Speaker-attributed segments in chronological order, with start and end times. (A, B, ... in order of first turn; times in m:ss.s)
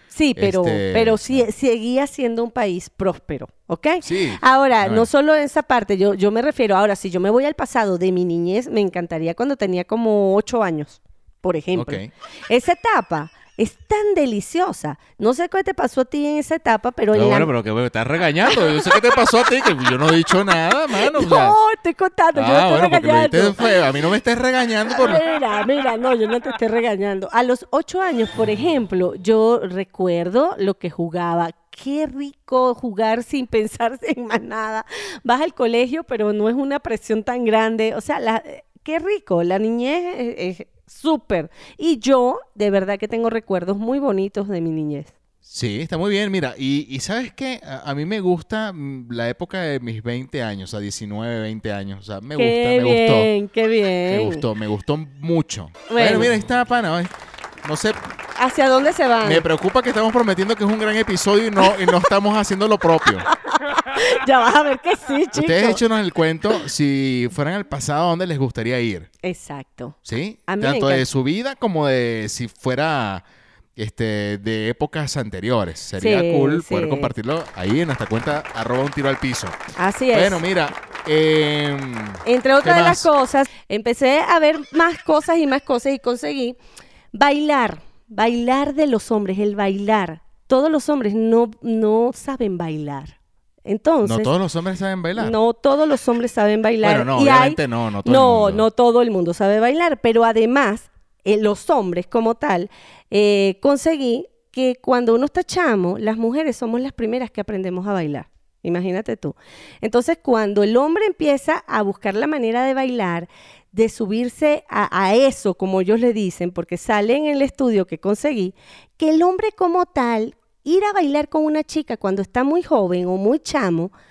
0:00.1-0:17.5 A
0:00.4-0:01.5 B
0:04.0-0:05.1 B
0:11.7-0:12.1 B
0:17.1-0:21.6 B
0:18.5-0:18.9 A
0:21.0-0:23.7 A
0:22.3-0:25.2 B
0:24.9-0:45.1 A
0:45.4-0:53.3 B
0:52.4-0:54.4 A
0:54.1-0:57.1 B
0:55.9-0:56.3 A
0:57.6-0:58.0 B
0:58.4-0:59.4 A
0:59.2-1:03.3 B
1:03.7-1:05.8 A
1:05.3-1:09.1 B
1:09.2-1:11.0 A
1:10.0-1:13.2 B
1:13.8-1:19.6 B
1:16.0-1:17.1 A
1:19.8-1:20.4 A
1:20.1-1:23.1 B
1:22.2-1:26.6 A
1:27.1-1:34.3 A
1:34.0-1:35.4 B
1:35.2-2:03.9 A
1:36.8-1:38.6 B